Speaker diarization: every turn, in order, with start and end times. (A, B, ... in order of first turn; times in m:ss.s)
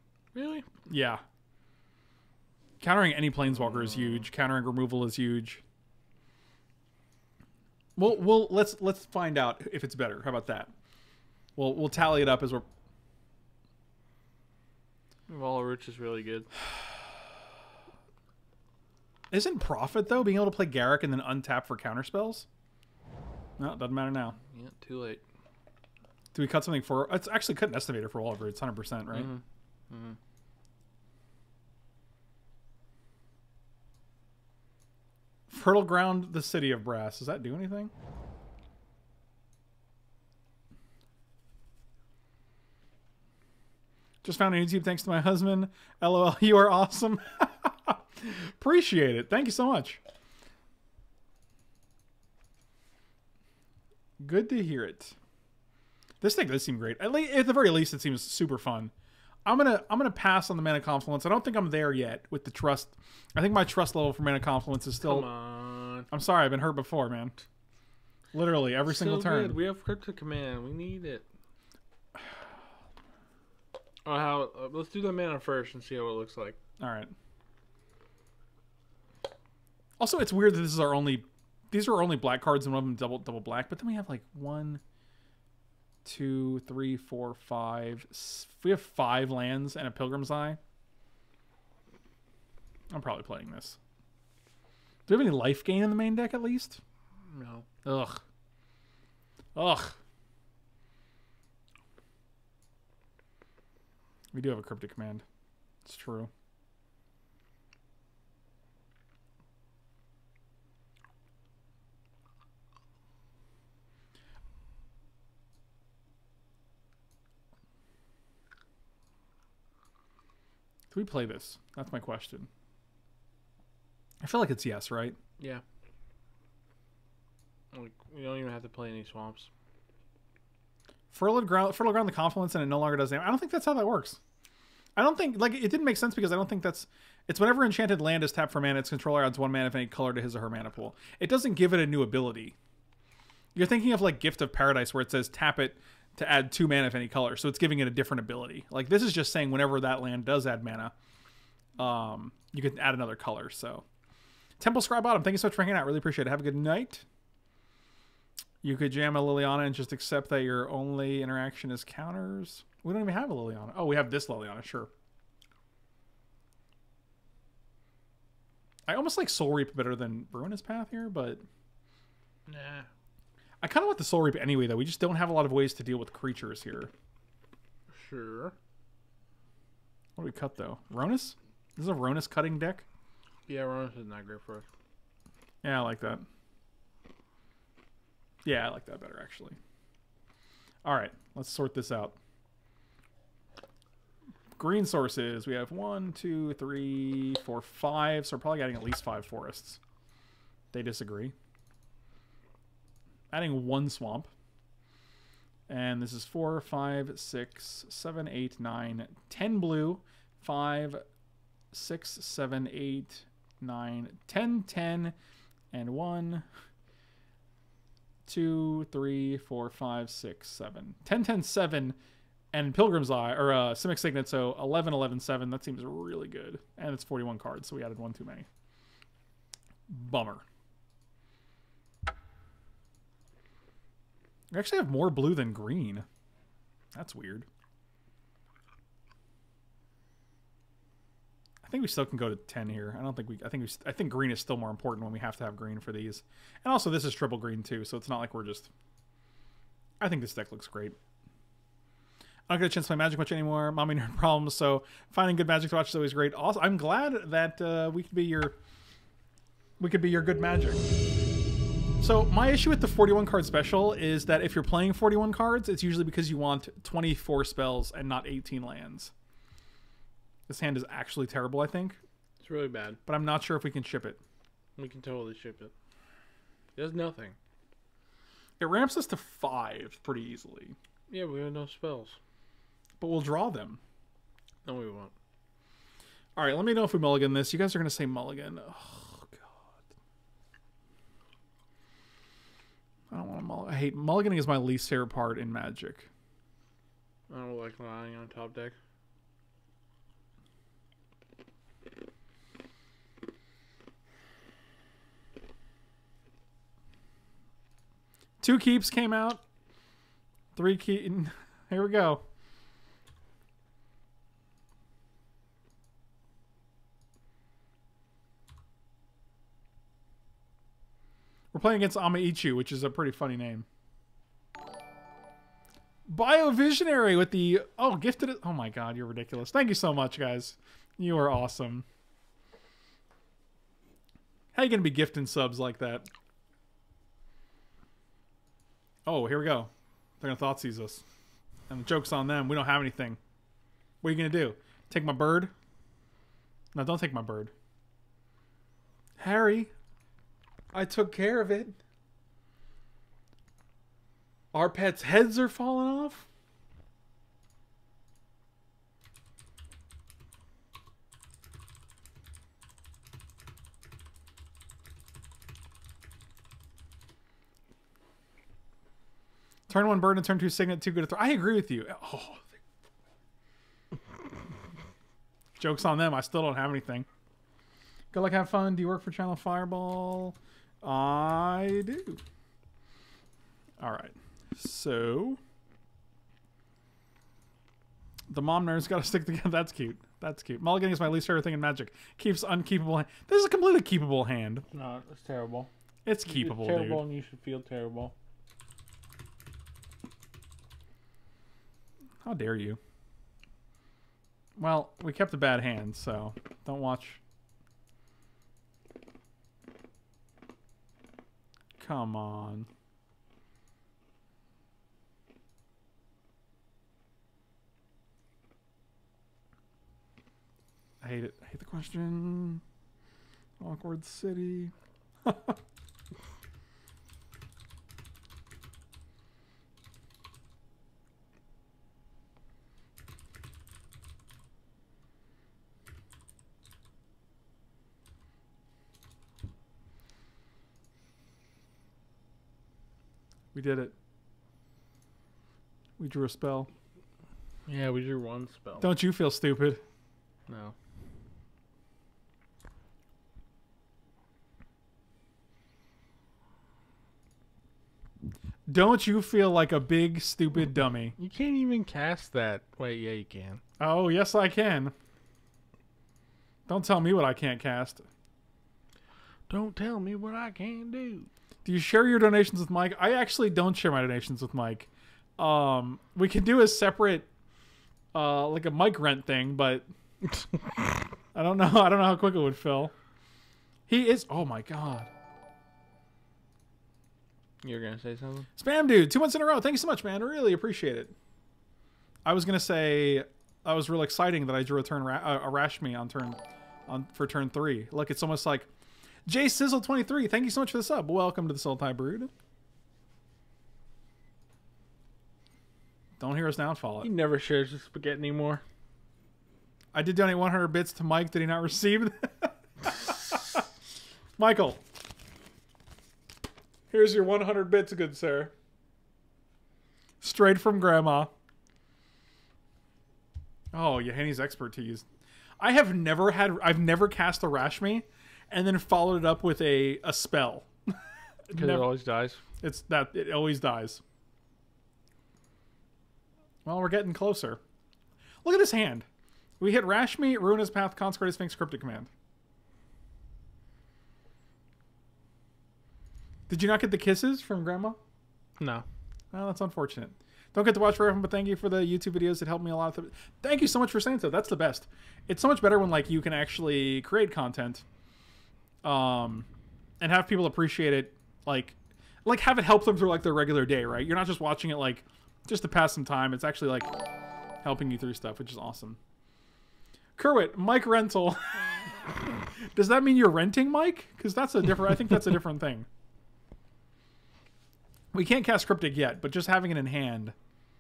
0:00.3-0:00.7 A
0:00.9-0:01.2 B
0:02.8-0:05.6 B
0:03.5-0:04.2 A
0:08.0-0:10.7 B
0:11.6-0:12.7 B
0:15.3-0:16.5 A
0:19.3-0:22.5 B
0:23.6-0:24.4 B
0:24.5-0:25.2 A
0:26.3-0:29.3 B
0:29.1-0:30.2 A
0:35.5-0:37.9 B
0:44.2-0:50.0 B
0:54.2-0:55.2 B
0:56.2-0:58.9 B
0:59.5-1:05.3 B
1:05.0-1:06.1 A
1:06.1-1:07.4 B
1:08.3-1:09.6 B
1:08.8-1:11.2 A
1:14.0-1:16.6 A
1:16.8-1:17.1 B
1:20.0-1:24.8 B
1:26.0-1:30.6 B
1:32.9-1:33.8 B
1:35.1-1:36.8 B
1:37.3-1:37.7 A
1:37.8-1:38.2 B
1:39.6-1:40.0 B
1:44.3-1:45.2 B
1:45.8-1:46.3 B
2:00.9-2:02.5 B
2:04.2-2:05.2 B
2:07.7-2:09.5 A
2:11.1-2:14.2 B
2:15.0-2:22.6 B
2:23.6-2:30.9 B
2:31.8-2:33.8 B
2:34.6-2:37.0 B
2:38.6-2:44.9 B
2:48.9-2:51.4 B
2:52.5-2:52.9 A
2:53.6-2:56.9 B
2:57.9-2:58.6 A
3:00.2-3:02.8 B
3:03.5-3:04.7 A
3:05.6-3:06.2 B
3:08.4-3:09.6 B
3:10.8-3:12.2 B
3:14.6-3:19.8 B
3:20.7-3:21.3 B
3:23.3-3:24.3 B
3:25.7-3:31.0 B
3:31.7-3:35.1 B
3:35.7-3:36.4 B
3:38.3-3:42.0 B
3:42.5-3:48.5 B
3:49.9-3:50.4 B
3:54.5-3:56.0 B
3:56.9-3:57.5 B
4:01.6-4:08.7 B
4:10.0-4:11.0 B
4:12.5-4:18.6 B
4:19.8-4:20.8 B
4:22.0-4:29.1 B
4:30.5-4:32.0 B
4:32.4-4:33.0 A
4:33.1-4:34.2 B
4:34.8-4:35.7 A
4:36.8-4:37.4 A
4:38.6-4:40.8 B
4:41.1-4:42.2 A
4:43.0-4:43.8 B
4:44.6-4:45.1 A
4:46.4-4:49.7 B
4:53.1-4:56.1 B
4:57.3-4:58.8 A
5:08.4-5:09.4 B
5:10.6-5:12.2 B
5:21.5-5:23.7 B
5:26.1-5:31.8 B
5:34.5-5:36.1 B
5:39.1-5:41.0 B
5:41.7-5:43.2 B
5:44.0-5:45.5 B
5:46.7-5:47.5 B
5:49.2-5:49.7 B
5:50.7-5:51.8 B
5:54.5-5:56.3 B
6:09.7-6:12.5 B
6:15.6-6:17.1 B
6:18.1-6:22.2 B
6:23.8-6:25.4 B
6:28.3-6:34.6 B
6:34.7-6:35.7 A
6:36.0-6:37.0 B
6:36.2-6:38.2 A
6:42.2-6:42.8 B
6:44.6-6:47.2 B
6:51.8-6:52.7 B
7:01.0-7:02.6 B
7:03.6-7:04.7 B
7:05.2-7:05.6 B
7:23.5-7:23.9 B
7:26.0-7:26.7 B
7:27.7-7:29.0 A
7:28.8-7:29.8 B
7:30.5-7:30.8 A
7:38.7-7:41.2 B
7:41.2-7:43.6 A
7:43.8-7:44.9 B
7:46.7-7:48.0 B
7:49.5-7:51.3 A
7:51.6-7:57.3 B
7:58.1-7:59.9 B
8:01.3-8:02.9 B
8:03.9-8:05.1 B
8:07.6-8:08.5 A
8:08.6-8:11.1 B
8:12.2-8:18.7 B
8:19.3-8:22.3 B
8:26.2-8:27.1 B
8:27.0-8:28.6 A
8:29.9-8:33.6 B
8:34.4-8:34.8 B
8:36.9-8:38.5 B
8:40.2-8:41.3 B
8:43.7-8:45.0 B
8:45.6-8:51.0 B
8:51.5-8:51.9 B
8:51.5-8:52.4 A
8:52.6-8:54.0 B
8:56.6-8:57.6 B
8:58.4-8:59.1 B
8:59.6-9:02.1 B
9:06.5-9:08.0 B
9:08.6-9:08.8 A
9:09.3-9:17.8 B
9:18.8-9:19.5 B
9:20.0-9:26.9 B
9:27.6-9:29.0 B
9:30.2-9:35.9 B
9:38.1-9:40.4 B